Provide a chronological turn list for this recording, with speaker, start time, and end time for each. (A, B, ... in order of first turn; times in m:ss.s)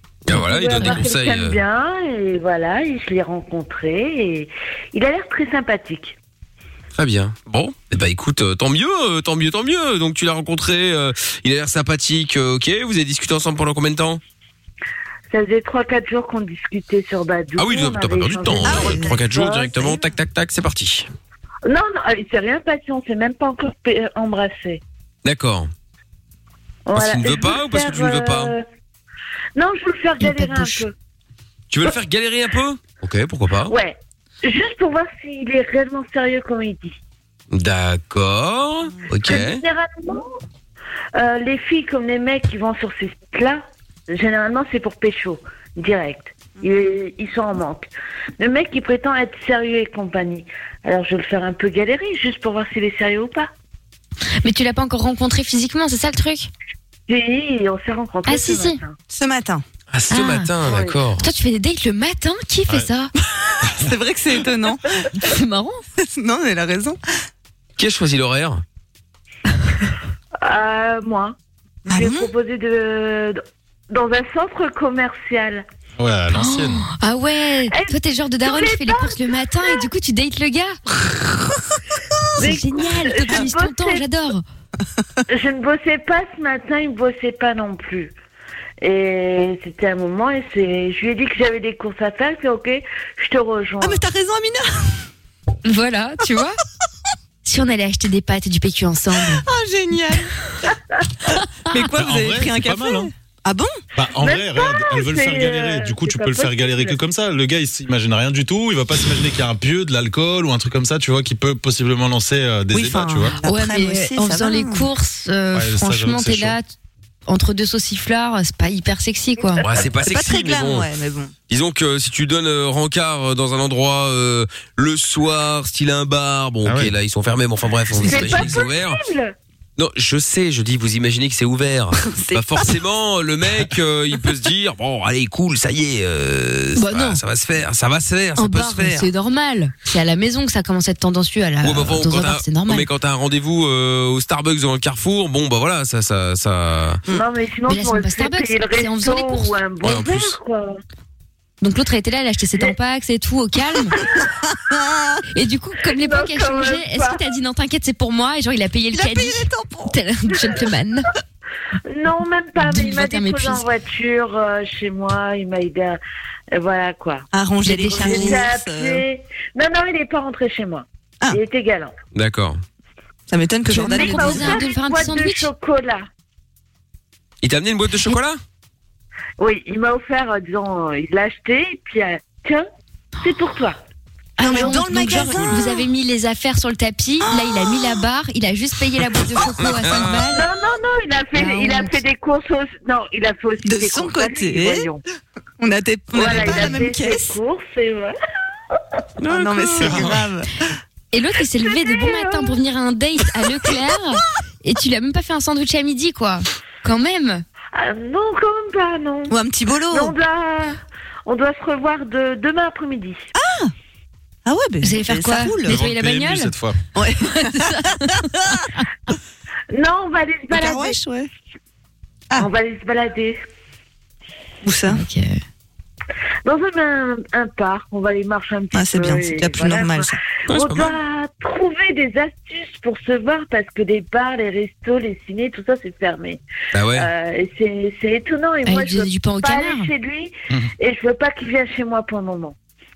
0:00.3-0:01.6 A
0:00.3-0:01.1 B
0:00.3-0:06.2 C
0:07.0-0:14.2 A
0:15.3-0:20.0 C
0:17.6-0:21.1 A
0:18.6-0:19.3 D
0:21.7-0:24.8 C
0:25.2-0:25.7 A
0:26.9-0:28.6 C
0:26.9-0:28.5 A
0:29.6-0:30.9 C
0:30.3-0:30.8 B
0:31.7-0:33.8 A
0:33.7-0:37.0 C
0:37.5-0:39.6 A
0:39.2-0:40.2 C
0:41.2-0:47.9 C
0:48.4-0:53.5 C
0:54.4-0:56.5 B
0:57.1-0:59.0 C
0:58.3-0:58.8 B
0:59.1-0:59.6 D
0:59.9-1:01.3 A
1:00.1-1:00.6 B
1:00.7-1:01.0 C
1:01.1-1:03.1 B
1:03.4-1:04.9 D
1:05.2-1:05.8 B
1:06.1-1:07.0 D
1:07.8-1:08.6 A
1:10.4-1:11.4 C
1:11.9-1:12.3 D
1:11.9-1:15.6 C
1:16.0-1:16.8 E
1:16.3-1:20.8 B
1:18.4-1:19.8 C
1:22.4-1:24.4 B
1:22.4-1:24.0 C
1:25.3-1:28.1 C
1:28.8-1:34.1 C
1:33.8-1:35.0 D
1:35.6-1:36.6 B
1:37.4-1:39.4 B
1:39.4-1:40.3 D
1:41.7-1:43.8 D
1:41.9-1:43.1 E
1:44.0-1:53.4 E
1:44.2-1:47.0 C
1:52.7-1:54.9 D
1:53.4-1:56.7 B
1:55.5-1:56.6 E
1:57.3-1:59.6 B
1:59.6-2:00.9 A
1:59.9-2:01.3 D
2:01.5-2:09.0 A
2:06.6-2:06.9 E
2:08.0-2:09.4 C
2:09.8-2:19.1 A
2:12.0-2:12.7 D
2:16.8-2:17.2 B
2:18.4-2:22.9 B
2:21.6-2:27.0 A
2:27.1-2:30.8 C
2:27.7-2:29.5 B
2:29.8-2:30.4 A
2:31.6-2:34.0 B
2:34.5-2:35.2 D
2:35.3-2:41.1 B
2:36.0-2:37.2 C
2:38.9-2:40.0 D
2:41.9-2:46.0 C
2:42.6-2:43.6 B
2:46.5-2:47.3 C
2:47.3-2:49.0 D
2:47.6-2:48.5 B
2:47.9-2:51.9 C
2:52.2-2:52.6 A
2:53.3-2:54.6 D
2:53.7-2:55.5 B
2:53.9-2:56.1 C
2:57.4-2:58.4 A
2:59.4-3:02.7 C
3:03.2-3:03.8 C
3:04.4-3:10.4 B
3:04.4-3:05.8 D
3:05.2-3:05.6 A
3:07.2-3:08.0 D
3:09.6-3:10.3 A
3:10.3-3:15.0 C
3:11.3-3:12.0 B
3:13.6-3:14.9 D
3:15.6-3:17.4 D
3:16.1-3:18.1 C
3:19.2-3:20.2 A
3:19.3-3:20.5 D
3:19.8-3:20.2 E
3:21.1-3:27.4 B
3:21.9-3:22.4 C
3:27.7-3:29.4 C
3:29.3-3:30.2 D
3:29.9-3:33.3 C
3:33.4-3:33.7 D
3:34.5-3:35.8 D
3:34.8-3:36.6 B
3:35.7-3:36.8 E
3:37.0-3:37.8 D
3:37.1-3:38.8 B
3:39.7-3:41.0 C
3:40.5-3:41.3 D
3:42.4-3:43.4 C
3:44.6-3:45.0 D
3:44.9-3:45.4 B
3:46.4-3:56.4 C
3:48.7-3:50.2 D
3:50.5-3:51.0 A
3:56.7-3:57.1 A
3:56.9-4:02.6 C
3:58.6-3:59.9 B